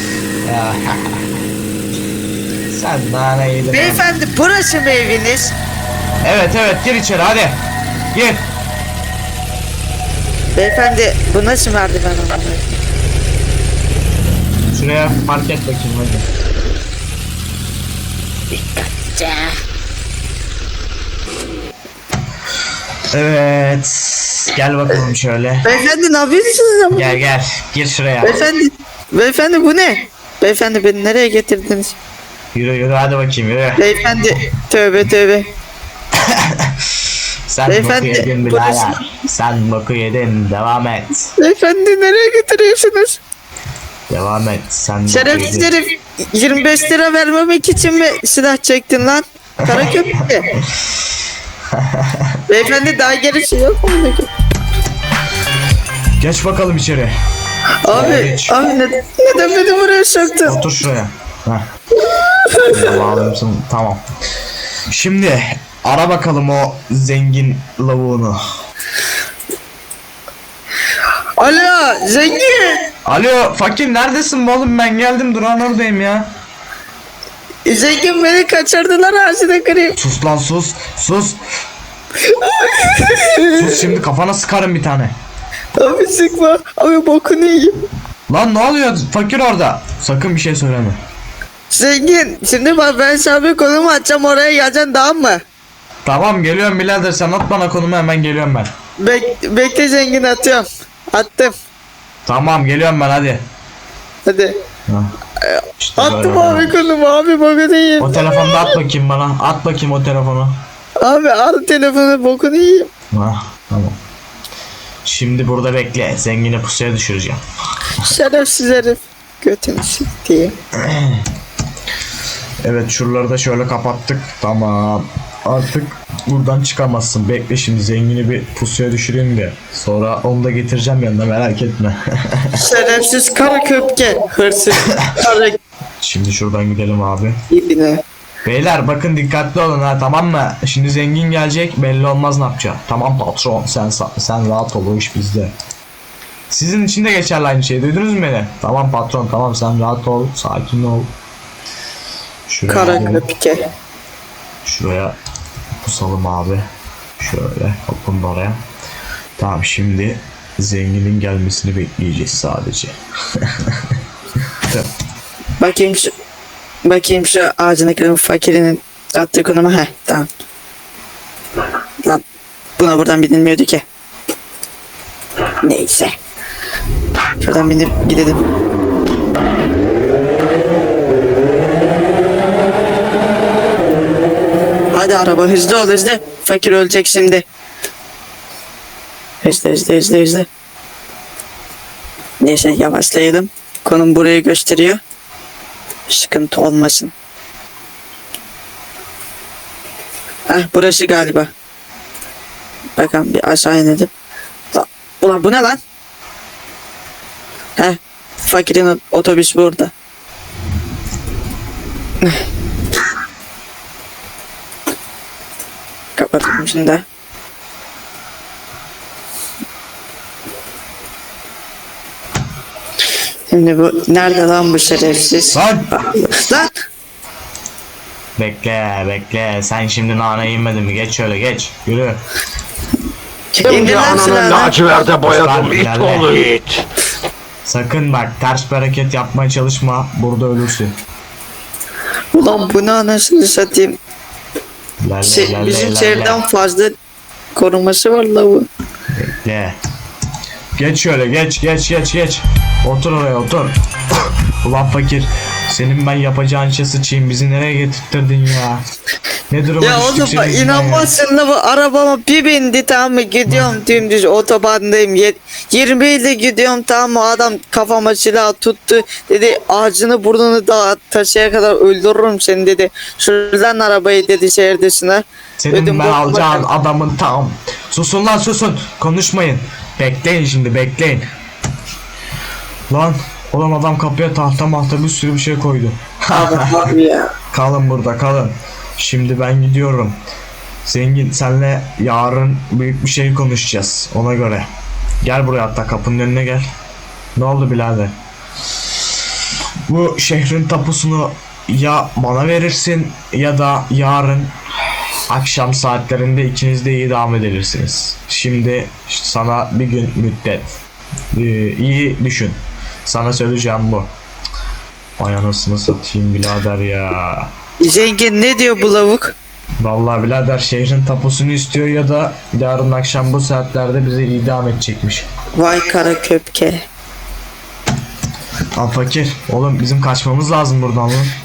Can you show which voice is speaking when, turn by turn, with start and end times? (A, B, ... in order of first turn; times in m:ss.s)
0:00.4-0:01.4 A
0:02.7-0:04.0 A
0:03.7-0:05.6 B
0:06.2-0:07.6 A
0:08.1-0:08.4 A
0:10.6-0:12.7 B
0:14.7-0:16.3 A
0:18.5-0:19.6 B
0:23.1-0:25.7 A
0:25.6-0:27.2 B
0:26.9-0:28.5 A
0:28.2-0:32.0 B
0:32.5-0:33.8 A
0:33.8-0:35.5 B
0:36.1-0:41.3 A
0:37.7-0:39.0 B
0:41.4-0:43.2 B
0:44.1-0:45.7 A
0:45.1-0:50.5 B
0:49.6-0:50.0 A
0:51.7-0:52.4 A
0:52.5-0:54.3 B
0:56.2-0:57.1 A
0:57.8-1:00.6 B
0:57.9-0:58.6 A
1:00.4-1:01.6 A
1:02.1-1:02.9 B
1:02.7-1:04.0 A
1:04.9-1:08.4 A
1:11.4-1:12.9 B
1:13.0-1:16.3 A
1:17.6-1:20.0 B
1:20.0-1:21.4 A
1:22.2-1:24.0 B
1:23.6-1:25.1 A
1:25.8-1:27.8 B
1:28.3-1:31.0 A
1:31.7-1:35.4 B
1:36.0-1:38.7 A
1:39.0-1:41.6 B
1:42.3-1:43.4 A
1:44.3-1:44.5 B
1:44.9-1:45.1 A
1:45.4-1:48.6 B
1:45.8-1:46.8 A
1:48.0-1:50.6 A
1:51.0-1:52.9 B
1:53.1-1:54.0 A
1:55.0-1:57.4 A
1:58.0-2:00.6 B
2:00.8-2:01.2 A
2:02.6-2:12.6 A
2:12.6-2:15.6 B
2:16.0-2:17.4 A
2:17.5-2:18.0 B
2:18.4-2:25.5 A
2:26.5-2:31.1 A
2:32.5-2:33.2 A
2:32.7-2:33.6 B
2:34.6-2:35.2 A
2:35.8-2:36.6 A
2:37.2-2:38.6 A
2:39.4-2:44.0 A
2:44.6-2:44.9 A
2:45.6-2:46.1 B
2:46.8-2:50.3 B
2:52.8-2:53.8 B
2:55.6-2:56.1 B
2:57.4-2:58.4 B
3:04.9-3:07.4 B
3:09.4-3:10.5 B
3:12.4-3:15.0 B
3:16.1-3:17.1 B
3:20.5-3:21.5 B
3:23.0-3:24.1 B
3:24.7-3:25.8 B
3:27.8-3:29.9 B
3:36.2-3:37.0 B
3:43.5-3:46.7 B
3:45.5-3:46.0 A
3:48.4-3:52.2 A
3:53.5-3:54.8 B
3:53.7-3:56.8 C
3:55.2-3:56.4 A
3:57.7-4:00.9 A
4:02.3-4:04.0 B
4:05.0-4:06.4 A
4:05.2-4:06.9 B
4:07.6-4:08.7 B
4:09.1-4:09.8 A
4:10.8-4:18.8 A
4:19.5-4:21.1 A
4:19.8-4:36.7 B
4:23.5-4:23.7 A
4:35.6-4:41.2 A
4:42.9-4:46.9 A
4:46.3-4:47.3 B
4:47.5-4:50.2 A
4:50.9-4:54.7 A
4:55.2-4:56.7 A
4:57.4-4:58.1 A
4:59.9-5:04.5 A
5:05.3-5:10.7 A
5:11.3-5:14.1 A
5:15.2-5:17.5 A
5:17.8-5:19.4 B
5:19.8-5:25.3 A
5:25.6-5:26.8 B
5:28.8-5:31.3 A